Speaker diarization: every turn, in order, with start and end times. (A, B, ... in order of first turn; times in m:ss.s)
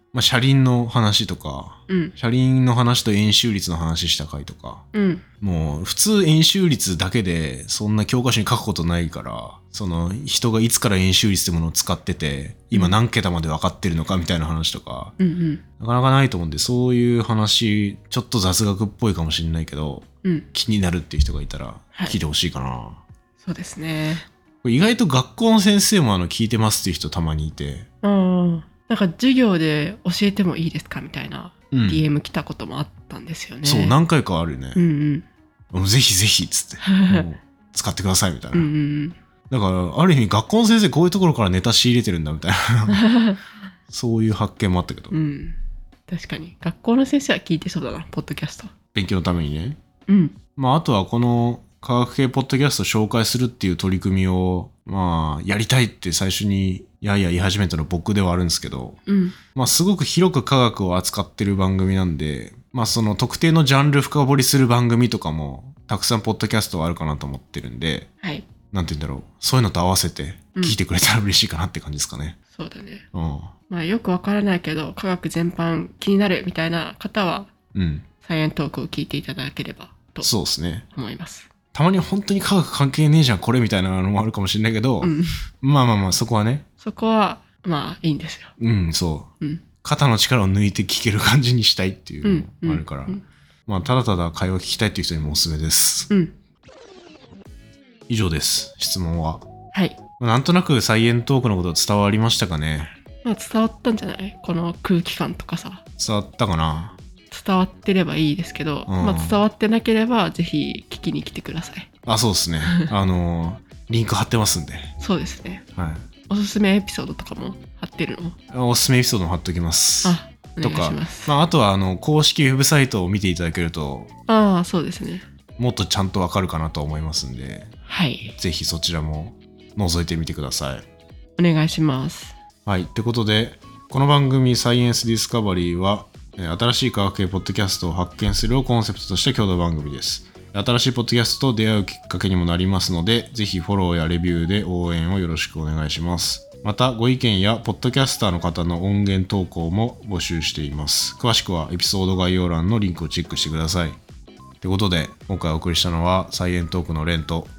0:00.1-0:04.8 A
0:01.9-0:02.1 B
0:04.9-0:05.2 B
0:05.4-0:15.1 A
0:15.2-0:15.6 B
0:15.8-0:23.0 A
0:23.4-0:24.2 B
0:24.6-0:27.9 A
0:28.0-0:34.0 B
0:31.7-0:32.0 A
0:33.6-0:34.8 A
0:34.7-0:35.2 B
0:35.7-0:38.7 A
0:36.8-0:37.3 B
0:38.5-0:39.2 B
0:39.5-0:43.1 A
0:42.9-0:43.4 B
0:43.9-0:45.1 A
0:45.1-0:48.7 B
0:48.9-0:49.8 A
0:50.1-0:50.4 B
0:50.5-1:08.1 A
0:59.1-0:59.4 B
1:08.2-1:08.5 B
1:08.7-1:12.4 A
1:12.5-1:13.0 B
1:13.1-1:13.5 A
1:13.7-1:17.5 B
1:17.7-1:18.1 A
1:18.2-1:20.3 B
1:20.2-1:20.8 A
1:20.9-1:21.5 B
1:21.7-1:26.6 A
1:25.0-1:25.4 B
1:26.8-1:28.5 B
1:28.6-1:36.1 A
1:29.4-1:29.6 B
1:32.2-1:33.2 B
1:38.1-1:39.5 A
1:39.7-1:40.0 B
1:40.2-1:42.9 A
1:43.2-1:45.8 B
1:46.0-1:47.0 A
1:47.3-1:51.9 B
1:48.9-1:49.4 A
1:52.0-1:54.9 A
1:52.6-1:52.9 B
1:55.0-1:55.6 B
1:55.7-1:56.1 A
1:56.3-1:58.3 B
1:58.5-2:04.1 A
2:00.0-2:01.3 B
2:04.3-2:05.2 B
2:05.6-2:07.7 A
2:07.9-2:08.3 B
2:08.4-2:10.8 A
2:11.4-2:12.4 B
2:12.6-2:34.0 A
2:34.6-2:37.5 A